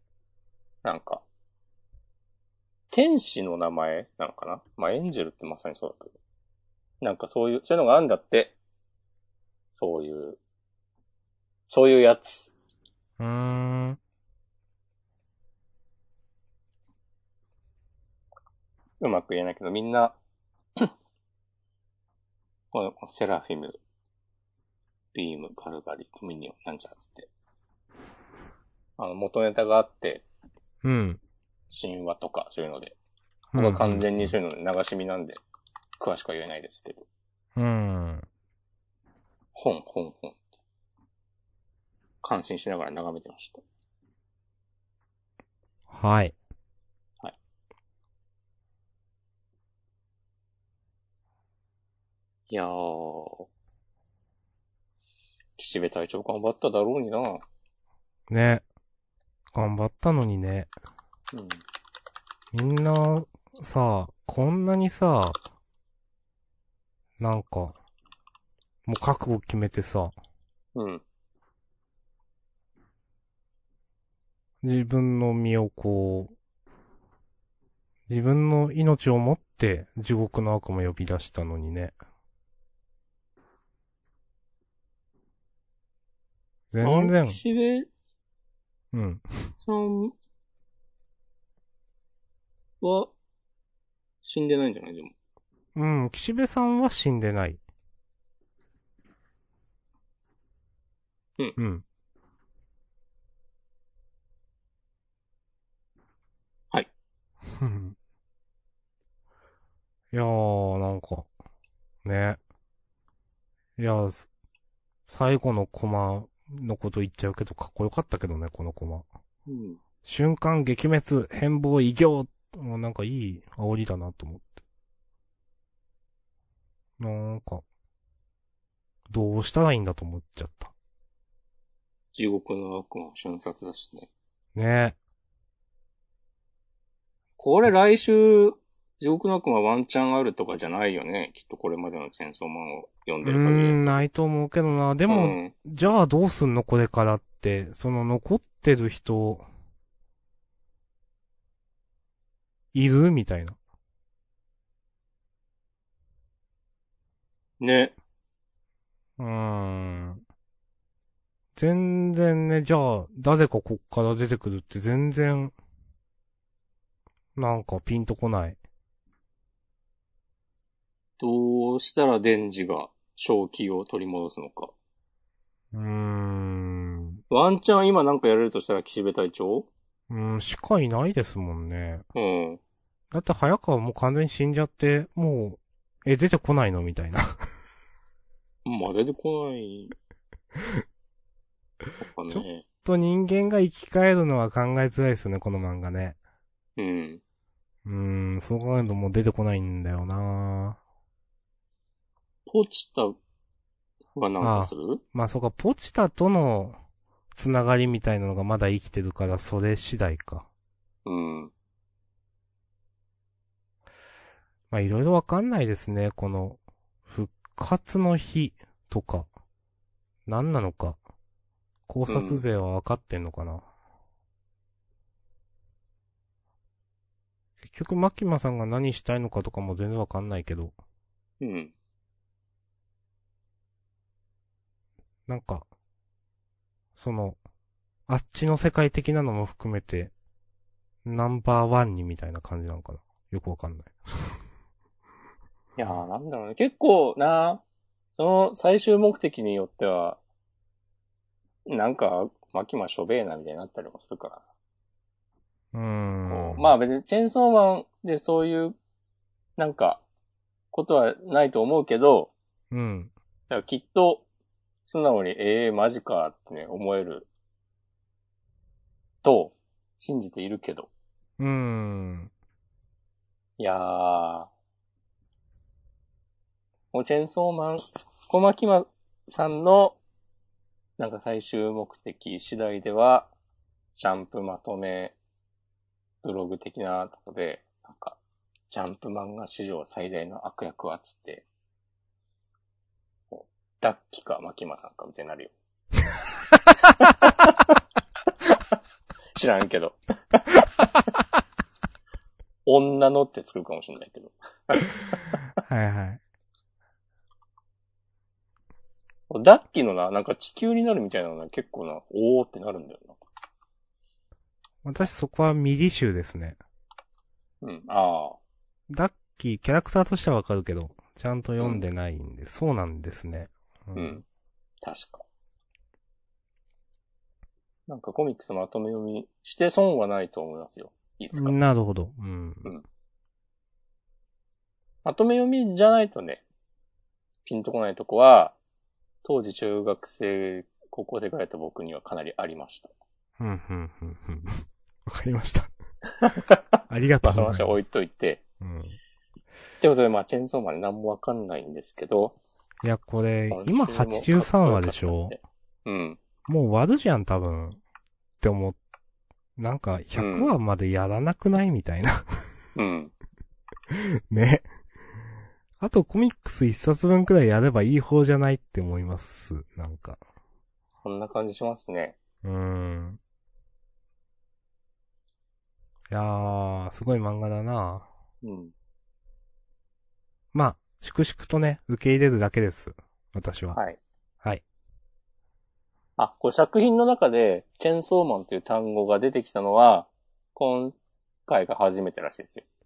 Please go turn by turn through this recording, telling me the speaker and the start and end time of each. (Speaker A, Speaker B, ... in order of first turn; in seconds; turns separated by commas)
Speaker A: 0.8-1.2, Speaker A: 2.9-6.1, Speaker A: 7.0-8.5, Speaker A: 9.8-10.4, Speaker A: 11.7-12.5, Speaker B: 13.2-14.0, Speaker A: 19.0-20.2, Speaker A: 22.7-23.8, Speaker A: 25.1-27.3, Speaker A: 29.0-30.2, Speaker B: 30.8-31.2, Speaker A: 31.7-32.9, Speaker B: 33.5-34.3, Speaker A: 33.5-35.4, Speaker A: 36.0-37.0, Speaker B: 37.5-38.2, Speaker A: 39.5-40.4, Speaker A: 42.2-43.6, Speaker B: 45.9-46.3, Speaker A: 52.5-53.5, Speaker A: 55.6-57.4, Speaker B: 58.3-58.6, Speaker B: 59.5-60.7, Speaker A: 61.3-61.6, Speaker B: 62.5-65.4, Speaker B: 67.2-67.8, Speaker B: 68.8-70.1, Speaker A: 70.7-71.0, Speaker B: 74.6-76.3, Speaker B: 78.1-81.9, Speaker B: 86.7-87.4, Speaker A: 86.8-87.9, Speaker B: 88.9-89.5, Speaker A: 89.6-90.1, Speaker A: 92.8-93.1, Speaker A: 94.2-95.1, Speaker B: 95.7-97.6, Speaker B: 101.6-101.8, Speaker B: 107.6-108.0, Speaker B: 110.1-111.3, Speaker B: 112.0-112.4, Speaker B: 113.8-114.3, Speaker B: 115.1-119.0, Speaker A: 119.5-119.8, Speaker B: 120.0-124.6, Speaker B: 127.0-127.6, Speaker B: 129.1-130.7, Speaker A: 132.1-134.1, Speaker B: 134.6-135.0, Speaker A: 137.4-144.0, Speaker B: 143.2-149.4, Speaker A: 145.1-145.5, Speaker B: 152.7-153.6, Speaker A: 157.6-157.9, Speaker B: 159.2-160.2, Speaker B: 161.5-165.5, Speaker B: 167.3-168.6, Speaker A: 171.2-174.7, Speaker B: 175.7-177.2, Speaker A: 177.3-179.7, Speaker B: 180.1-182.0, Speaker A: 182.1-182.6, Speaker B: 183.1-187.3, Speaker A: 188.6-189.9, Speaker A: 192.0-192.6, Speaker B: 192.3-196.2, Speaker A: 196.8-197.2, Speaker B: 197.8-200.8, Speaker A: 202.4-203.2, Speaker A: 204.1-205.0, Speaker B: 204.4-206.8, Speaker B: 207.3-210.5, Speaker A: 211.0-211.5, Speaker B: 214.7-219.3, Speaker B: 220.2-221.0, Speaker B: 221.9-223.6, Speaker A: 222.1-222.4, Speaker B: 227.6-230.7, Speaker A: 231.4-231.7, Speaker B: 235.3-235.7, Speaker B: 236.9-237.4, Speaker B: 238.1-240.1, Speaker B: 241.0-244.4, Speaker A: 245.8-247.6, Speaker A: 248.2-250.2, Speaker A: 251.7-254.4, Speaker B: 255.7-256.7, Speaker A: 256.3-258.8, Speaker A: 259.6-260.0, Speaker A: 260.7-262.3, Speaker B: 262.7-263.1, Speaker A: 263.5-264.2, Speaker A: 264.9-267.3, Speaker A: 269.2-270.9, Speaker B: 271.4-272.3, Speaker A: 273.6-274.5, Speaker A: 276.9-280.0, Speaker A: 281.0-283.3, Speaker A: 283.9-285.1, Speaker A: 286.2-288.2, Speaker A: 288.7-291.4, Speaker A: 293.3-295.5, Speaker A: 297.0-297.7, Speaker A: 299.4-300.7, Speaker A: 302.6-305.4, Speaker B: 305.6-306.2, Speaker A: 309.3-313.2, Speaker B: 314.8-316.6, Speaker A: 317.6-318.4, Speaker B: 318.9-324.2, Speaker A: 323.9-324.2, Speaker A: 324.8-325.2, Speaker A: 327.9-331.6, Speaker B: 331.3-332.7, Speaker A: 335.0-336.4, Speaker A: 337.4-338.5, Speaker A: 339.2-342.9, Speaker B: 343.4-345.7, Speaker A: 346.2-348.4, Speaker B: 346.9-347.8, Speaker B: 348.6-349.0, Speaker A: 349.8-352.4, Speaker B: 352.8-355.4, Speaker A: 353.5-356.2, Speaker B: 356.5-357.8, Speaker B: 358.4-358.8, Speaker B: 359.6-362.2, Speaker A: 360.1-360.5, Speaker A: 362.8-363.1, Speaker B: 363.9-364.6, Speaker B: 365.8-370.2, Speaker A: 371.0-372.2, Speaker B: 372.4-373.2, Speaker B: 376.1-378.1, Speaker A: 378.4-378.7, Speaker B: 380.5-383.8, Speaker A: 383.7-384.0, Speaker A: 386.2-392.6